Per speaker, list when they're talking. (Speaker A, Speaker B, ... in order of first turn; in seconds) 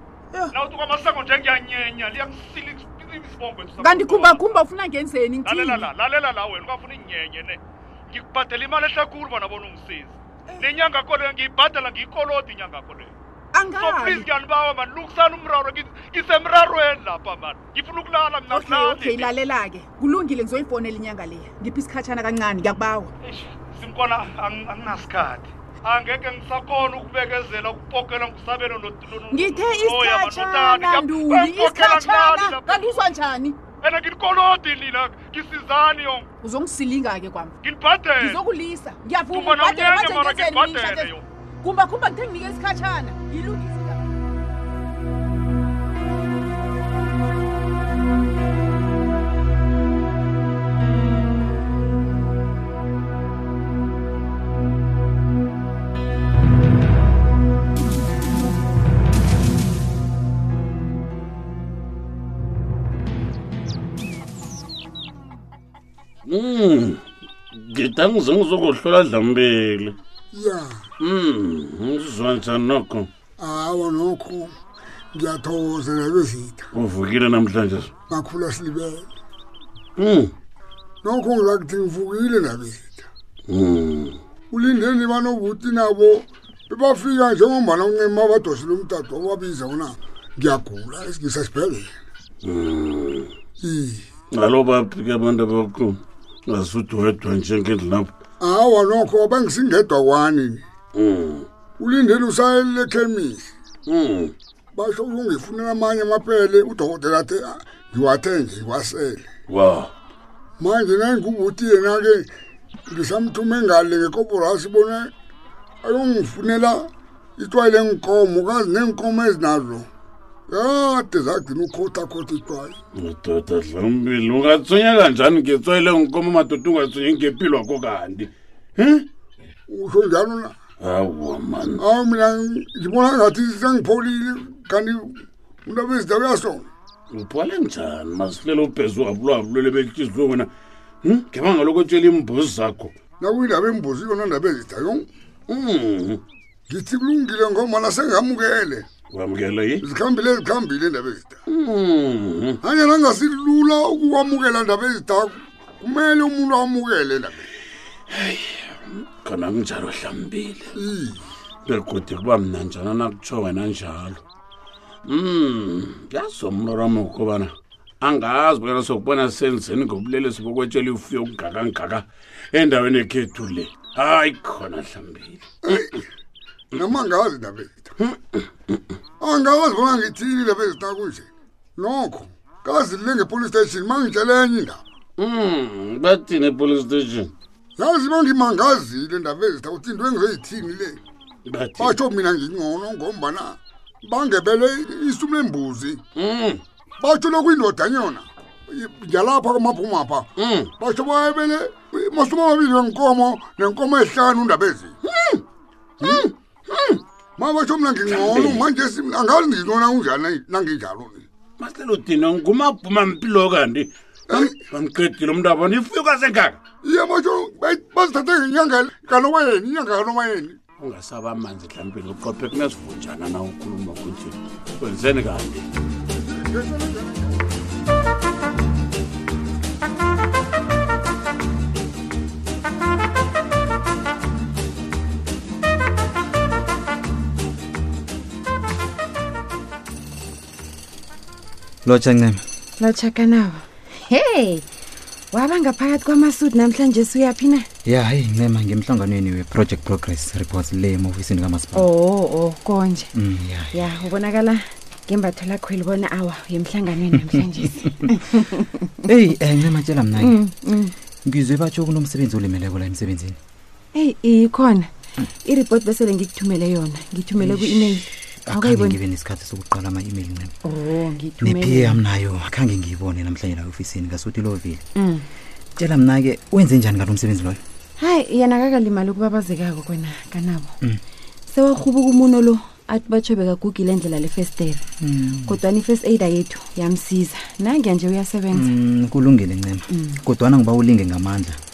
Speaker A: 0.5-4.4, 5.5-13.1, 13.8-19.3, 23.2-33.0, 33.8-36.3, 37.6-38.3, 39.3-41.2
Speaker B: 3.8-5.9, 13.5-14.3, 18.5-23.1, 29.3-33.6, 36.4-37.5, 38.2-44.1
Speaker C: 66.3-67.0, 67.5-70.0, 71.0-73.1, 76.8-77.9, 80.0-80.3, 83.5-84.2, 92.5-93.3, 94.3-98.1, 101.0-101.5, 103.9-104.3, 109.5-109.9, 123.0-129.1, 130.8-131.7, 137.1-140.5, 141.0-142.9, 145.5-146.2, 149.1-149.8, 151.5-152.4, 158.1-158.7, 159.2-160.7, 161.7-164.2, 165.1-167.5, 168.0-175.4, 185.2-187.3, 191.5-192.0, 196.2-196.6, 200.4-200.7, 206.0-206.3, 208.1-208.6, 211.6-216.6, 220.8-225.6
Speaker D: 70.3-70.7, 73.4-74.5, 75.1-76.7, 78.1-79.1, 81.0-83.0, 84.5-91.9, 93.6-94.0, 98.4-100.6, 101.8-103.5, 104.8-109.2, 110.6-112.3, 112.9-115.1, 115.8-116.9, 117.4-119.8, 120.5-122.8, 129.7-130.5, 131.8-136.7, 143.2-145.1, 146.7-148.8, 149.8-151.3, 152.6-157.5, 160.8-161.2, 176.8-177.9, 179.2-184.8, 187.8-191.0, 191.8-196.0, 197.0-200.3, 200.8-204.9, 207.4-211.2, 216.8-220.6, 226.1-227.4
Speaker E: 241.8-242.4, 247.9-251.9, 253.1-254.0, 259.0-260.4, 261.3-263.4, 267.4-270.5, 271.4-274.8, 275.8-277.6, 285.0-285.6, 288.5-291.6
Speaker F: 242.8-244.6, 245.3-247.7, 251.7-253.1, 253.7-258.2, 260.2-260.9, 263.9-264.9, 265.4-269.0, 270.6-272.0, 275.0-275.2, 278.0-280.7, 281.5-284.8, 285.5-288.7